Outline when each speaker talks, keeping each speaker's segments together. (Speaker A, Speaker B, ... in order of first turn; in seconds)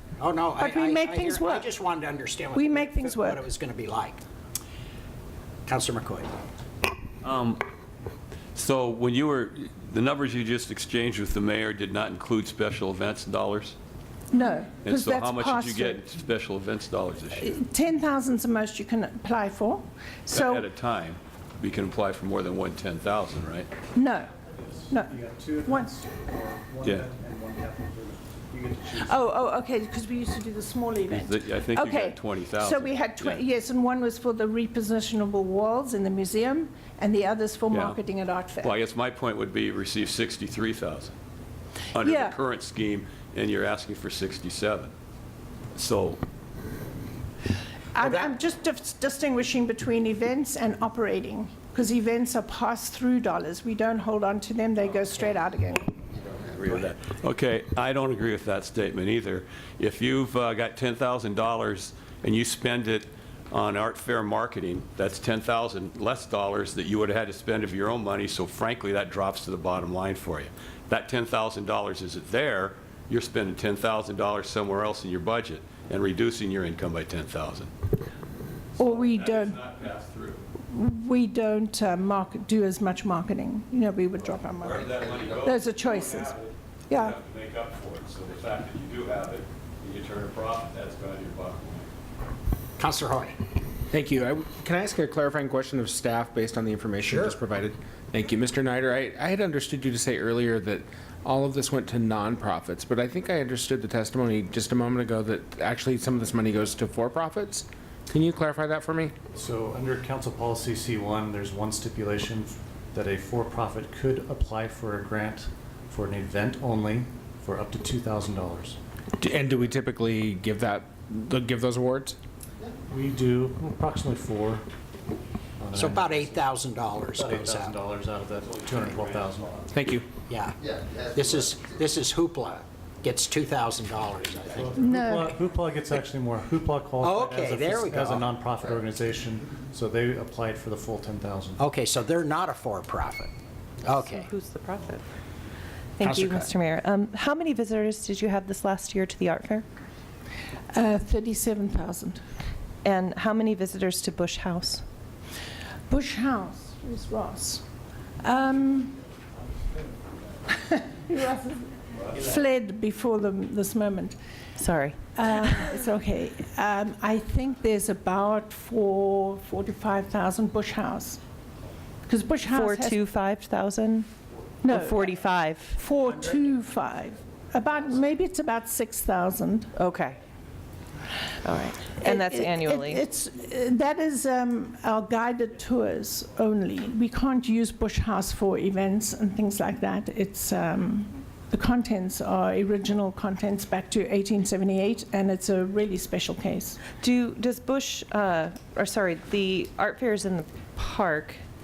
Speaker A: 0.2-4.2, 5.7-6.3, 92.8-93.4, 97.0-97.4, 125.7-127.8, 130.3-134.7, 137.0-138.3, 141.6-143.3, 143.8-144.3, 146.0-146.5
Speaker B: 0.6-1.7, 2.5-3.5, 14.3-16.0, 17.4-20.7, 23.9-24.3, 24.9-26.0, 29.1-38.7, 42.0-42.4, 47.9-55.9, 78.8-79.6, 80.7-86.3, 86.9-87.2, 134.8-135.3, 150.7-152.2, 155.9-157.7, 158.2-159.0, 160.5-164.2, 165.1-171.2, 172.1-173.0, 174.6-175.1, 175.7-179.7, 182.0-196.8
Speaker C: 7.2-7.6, 8.6-13.8, 14.8-17.6, 20.3-23.7, 31.1-33.4, 37.7-38.0, 38.6-41.1, 41.9-44.9, 45.8-46.2, 56.5-77.7, 78.8-80.4, 84.6-91.9, 128.3-129.3
Speaker D: 25.0-29.2, 109.3-118.8, 122.9-124.7, 125.6-126.5, 127.1-129.7, 134.5-141.6
Speaker E: 93.9-109.2, 119.2-122.2, 129.7-130.1
Speaker F: 144.0-145.1, 146.0-149.7, 152.8-154.8, 164.6-165.1, 172.5-174.1, 174.7-175.8, 179.8-180.2, 181.4-183.0, 197.0-201.4